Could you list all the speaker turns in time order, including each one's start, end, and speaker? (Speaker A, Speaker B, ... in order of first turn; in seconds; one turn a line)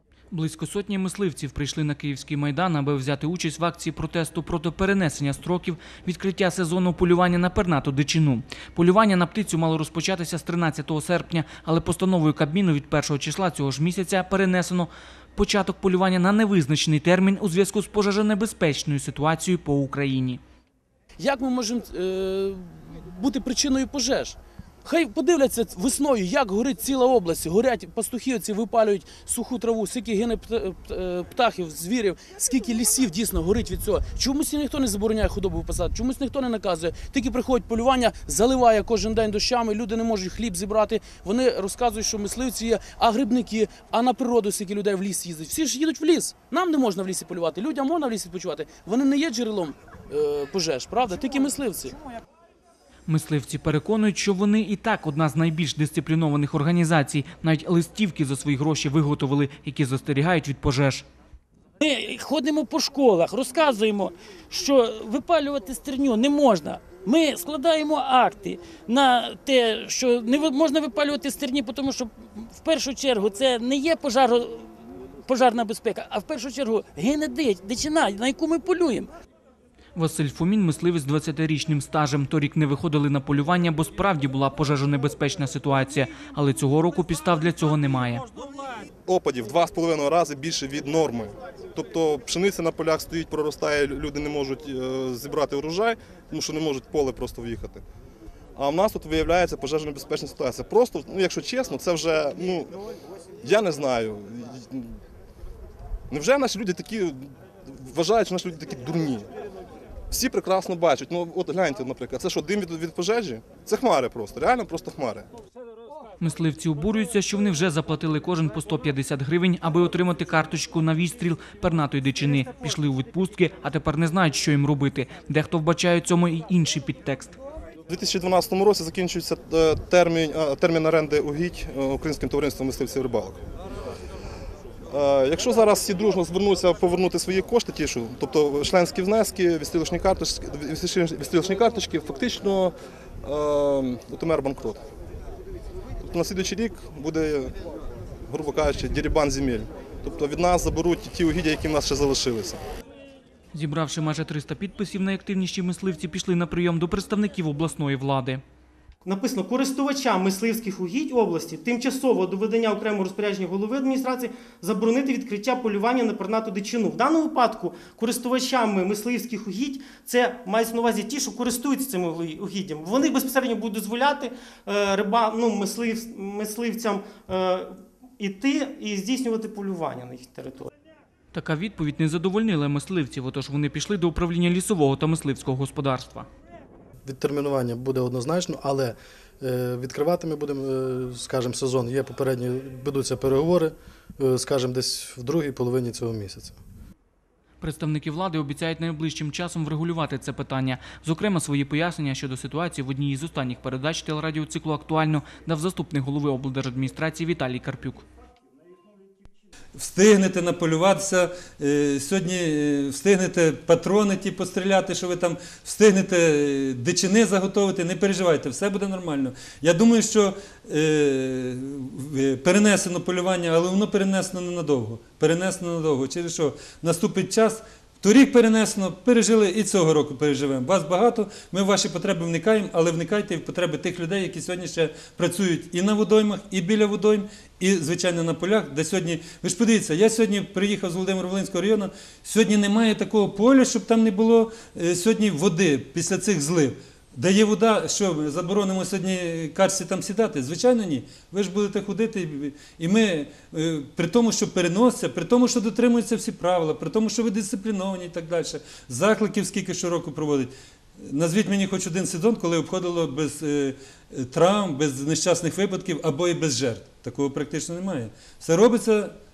Speaker A: 0.3-20.4
Speaker B: 21.2-52.0
Speaker A: 53.1-61.0
Speaker C: 61.8-74.7
Speaker C: 75.2-79.1
Speaker A: 79.9-88.2
Speaker D: 89.0-97.8
Speaker D: 98.5-102.7
Speaker D: 103.4-104.9
Speaker D: 106.1-109.3
Speaker D: 110.1-115.3
Speaker A: 116.2-127.3
Speaker D: 127.9-133.4
Speaker D: 134.9-144.8
Speaker D: 146.0-147.5
Speaker D: 148.3-152.6
Speaker A: 153.5-158.4
Speaker E: 159.0-180.7
Speaker A: 181.3-186.3
Speaker F: 187.0-196.6
Speaker A: 197.6-208.0
Speaker G: 209.7-269.1